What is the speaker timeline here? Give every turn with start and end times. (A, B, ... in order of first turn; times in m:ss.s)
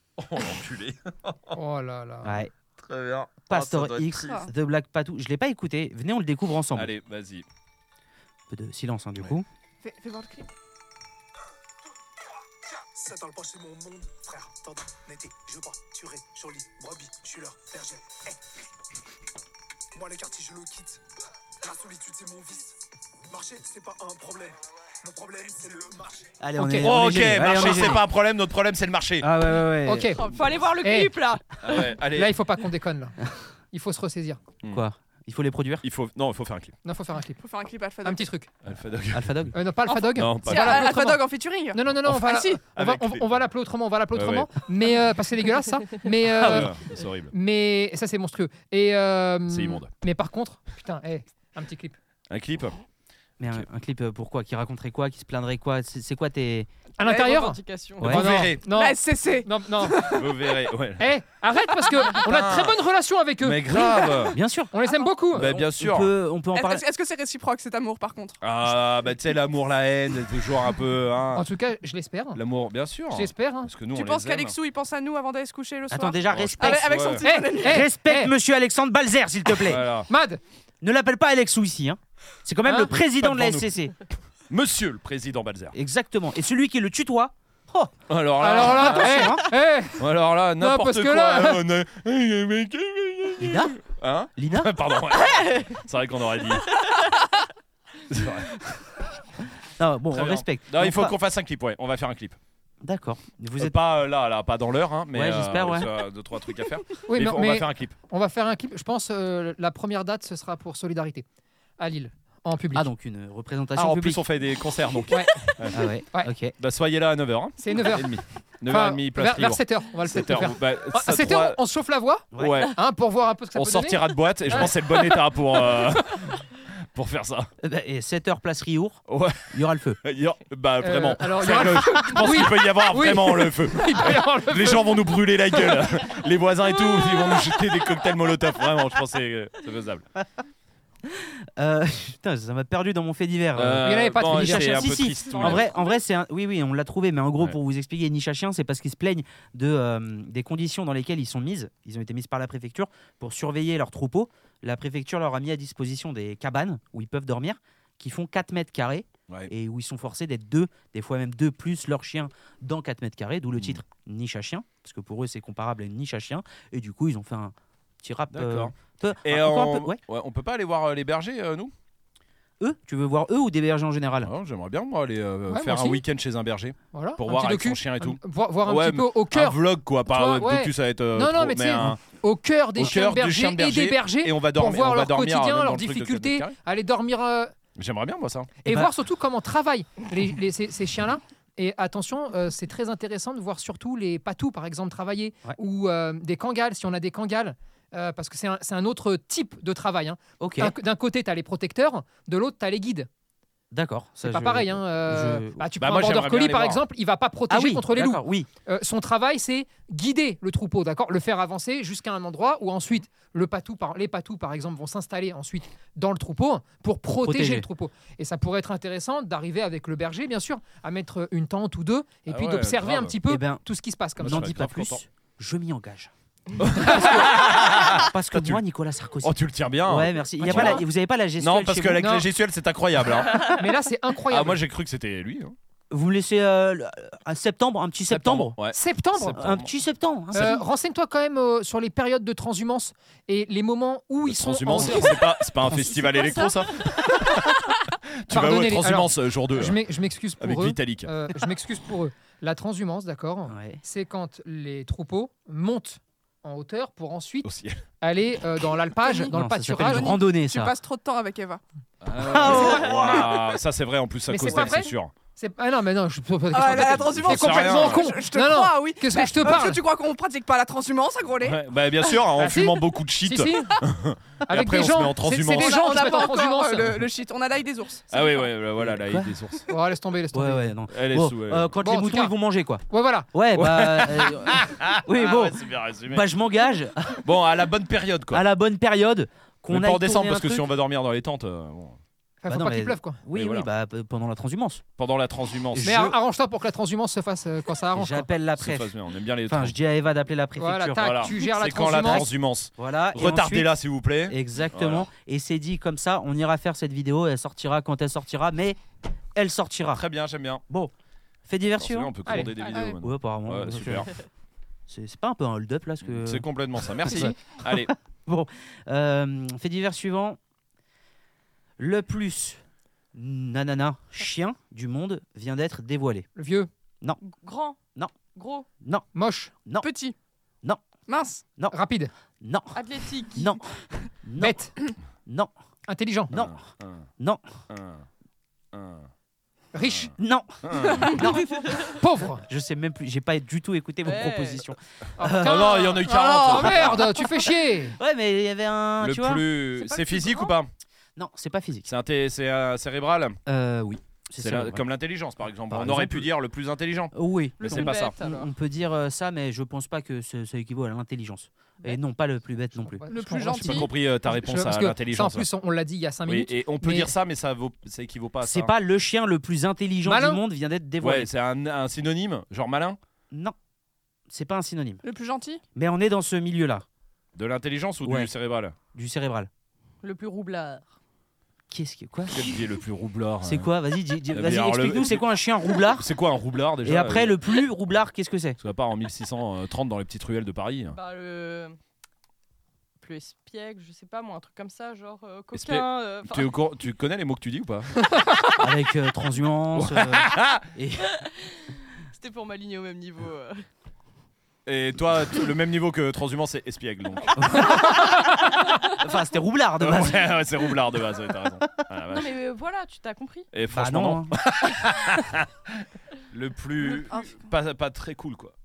0:00.2-0:01.5 A
0:01.5-0:02.4 B
0:02.2-0:02.5 C
0:02.8-0:04.4 A
0:03.5-0:06.9 C
0:04.2-0:04.5 D
0:06.7-0:07.4 A
0:08.5-0:09.5 C
0:09.8-0:10.5 D
0:12.9-0:18.4 E
0:19.9-0:21.0 E
0:21.6-0:26.4 E
0:26.4-0:28.1 C
0:26.6-0:26.9 B
0:26.8-0:29.3 A
0:29.2-0:30.2 C
0:29.8-0:31.2 B
0:30.1-0:31.4 F
0:31.6-0:32.3 A
0:31.7-0:34.4 B
0:34.7-0:35.8 C
0:35.8-0:36.8 A
0:36.8-0:37.4 B
0:37.4-0:38.3 D
0:38.0-0:38.5 B
0:38.6-0:39.5 A
0:39.1-0:39.5 C
0:39.5-0:41.2 B
0:39.9-0:42.6 D
0:40.1-0:40.9 A
0:40.8-0:41.1 C
0:41.7-0:52.0 B
0:42.7-0:43.3 A
0:44.1-0:44.5 A
0:46.3-0:47.3 A
0:49.5-0:49.9 A
0:52.3-0:52.8 A
0:53.4-0:56.7 C
0:57.0-1:00.1 B
0:57.0-0:58.1 F
0:58.0-0:58.5 C
0:58.0-0:58.6 A
0:58.6-1:00.4 D
1:00.0-1:01.1 A
1:01.0-1:04.2 B
1:02.2-1:02.8 A
1:03.4-1:04.4 A
1:04.3-1:04.7 C
1:04.7-1:05.5 B
1:05.3-1:06.1 A
1:05.3-1:06.8 C
1:06.5-1:08.4 D
1:08.4-1:11.5 A
1:11.4-1:12.4 B
1:12.4-1:14.6 A
1:13.1-1:13.8 B
1:13.9-1:17.9 D
1:15.9-1:19.9 C
1:16.3-1:17.2 A
1:17.2-1:18.3 B
1:19.6-1:20.1 A
1:20.1-1:20.4 B
1:20.8-1:23.9 C
1:22.6-1:22.9 B
1:23.2-1:23.7 A
1:24.5-1:25.8 A
1:25.7-1:27.9 C
1:28.1-1:29.4 A
1:28.4-1:30.1 B
1:28.6-1:29.4 C
1:30.0-1:36.7 A
1:30.6-1:31.6 B
1:33.4-1:33.8 C
1:34.4-1:34.7 C
1:38.1-1:38.6 A
1:39.8-1:41.1 C
1:40.1-1:42.4 A
1:42.8-1:43.8 C
1:43.6-1:48.0 A
1:45.1-1:45.9 C
1:47.1-1:51.2 B
1:51.8-1:52.9 B
1:52.7-1:54.2 C
1:53.8-1:55.8 A
1:55.1-1:56.3 B
1:55.7-1:56.5 C
1:56.5-2:01.6 A
1:57.6-2:04.8 B
2:02.3-2:02.7 C
2:02.4-2:02.8 A
2:03.5-2:07.5 A
2:07.6-2:10.0 C
2:09.1-2:20.1 A
2:10.8-2:15.0 B
2:21.1-2:50.0 C
2:23.6-2:25.7 A
2:23.8-2:25.7 B
2:43.6-2:43.8 A
2:48.3-2:51.7 A
2:52.6-2:54.3 C
2:54.2-3:02.0 A
2:55.5-2:56.0 B
2:56.9-3:07.5 B
3:02.8-3:06.6 A
3:07.8-3:08.6 A
3:08.6-3:23.1 B
3:08.6-3:08.9 C
3:20.4-3:20.8 C
3:23.7-3:25.7 C
3:24.2-3:44.6 B
3:25.8-3:26.8 A
3:27.5-3:28.5 C
3:37.2-3:37.7 C
3:42.3-3:43.2 A
3:43.3-3:43.6 C
3:44.2-3:45.0 A
3:44.2-3:46.1 C
3:46.6-3:48.6 A
3:46.7-3:52.1 C
3:46.8-3:47.3 B
3:49.2-3:50.8 A
3:50.4-3:50.8 B
3:51.4-3:53.5 A
3:52.0-3:52.2 B
3:53.4-3:54.6 B
3:54.3-3:55.6 A
3:55.9-3:58.6 C
3:58.1-3:59.7 A
3:58.7-3:59.4 B
3:59.3-4:00.6 C
4:00.3-4:05.2 B
4:04.3-4:07.7 A
4:04.7-4:06.5 C
4:08.2-4:09.8 A
4:08.3-4:17.5 B
4:10.4-4:11.1 A
4:13.5-4:13.8 C
4:17.4-4:17.8 A
4:18.0-4:20.2 B
4:19.0-4:21.6 D
4:19.3-4:20.8 C
4:22.0-4:25.1 A
4:22.2-4:23.3 C
4:22.5-4:23.2 B
4:22.5-4:23.2 D
4:24.3-4:29.8 B
4:26.5-4:32.2 D
4:26.5-4:28.1 A
4:29.4-4:29.7 A
4:31.4-4:35.9 A
4:32.4-4:33.8 B
4:34.5-4:37.1 B
4:35.5-4:38.3 D
4:38.1-4:39.7 A
4:38.8-4:39.3 C
4:39.7-4:40.8 B
4:40.3-4:47.2 C
4:40.9-4:41.7 A
4:41.8-4:42.4 B
4:42.9-4:43.3 B
4:43.6-4:46.3 A
4:47.2-4:48.4 A
4:48.3-4:50.7 C
4:49.7-4:52.0 A
4:52.4-4:53.2 B
4:52.5-4:54.8 C
4:53.3-4:53.7 A
4:55.0-4:56.0 A
4:55.8-4:56.2 C
4:55.8-4:58.3 B
4:57.9-4:58.9 C
4:58.6-4:59.8 A
4:59.5-5:01.4 C
5:00.6-5:02.3 B
5:01.0-5:05.1 A
5:02.0-5:03.8 C
5:04.3-5:08.8 C
5:09.4-5:10.0 C
5:09.9-5:10.6 A
5:11.5-5:14.1 C
5:11.7-5:14.1 A
5:12.3-5:12.5 B
5:12.6-5:13.0 F
5:12.7-5:13.0 D
5:14.9-5:20.4 C
5:16.0-5:17.9 A
5:21.8-5:22.6 C
5:23.1-5:26.3 C
5:26.4-5:26.7 B
5:27.2-5:27.8 F
5:28.3-5:28.7 F
5:28.8-5:29.1 C
5:29.1-5:29.5 B
5:29.8-5:30.1 D
5:31.1-5:31.4 D
5:31.7-5:32.1 B
5:32.4-5:32.8 C
5:32.7-5:33.5 F
5:33.3-5:34.7 C
5:34.4-5:34.7 B
5:35.3-5:35.5 C
5:35.9-5:36.3 B
5:36.3-5:36.6 C
5:36.3-5:37.1 A
5:37.7-5:38.1 A
5:38.7-5:39.1 A
5:39.7-5:40.1 B
5:40.2-5:41.8 C
5:40.6-5:41.2 A
5:41.9-5:42.4 B
5:42.5-5:47.1 C
5:44.0-5:44.7 F
5:45.2-5:48.0 B
5:45.4-5:47.1 A
5:47.9-5:49.4 C
5:49.0-5:50.7 A
5:49.8-5:50.6 F
5:51.2-5:51.9 C
5:51.9-5:53.4 A
5:53.5-5:54.8 C
5:54.4-5:58.2 A
5:55.7-5:56.3 C
5:57.1-6:03.0 C
5:57.6-5:58.5 F
6:02.9-6:07.1 B
6:03.1-6:03.9 D
6:03.6-6:05.5 A
6:06.3-6:08.7 A
6:08.4-6:11.3 C
6:10.0-6:10.4 B
6:11.0-6:13.0 A
6:13.3-6:13.6 C
6:14.3-6:15.0 C
6:15.0-6:15.6 D
6:15.8-6:16.9 C
6:17.3-6:18.8 A
6:18.0-6:18.3 C
6:18.9-6:19.5 C
6:20.0-6:20.9 F
6:21.7-6:22.6 C
6:22.3-6:23.7 A
6:23.4-6:26.1 C
6:24.3-6:25.3 A
6:25.9-6:27.4 A
6:26.8-6:28.6 C
6:28.6-6:31.0 A
6:30.9-6:31.8 F
6:33.0-6:36.5 F
6:35.5-6:37.9 A
6:38.6-6:41.2 C
6:39.8-6:40.6 A
6:41.2-6:43.7 F
6:44.7-6:47.8 A
6:47.4-6:48.1 C
6:47.7-6:48.1 B
6:48.9-6:50.3 C
6:49.8-6:52.4 A
6:52.1-6:53.5 F
6:53.5-6:58.5 A
6:53.7-6:54.4 C
6:57.1-6:57.4 D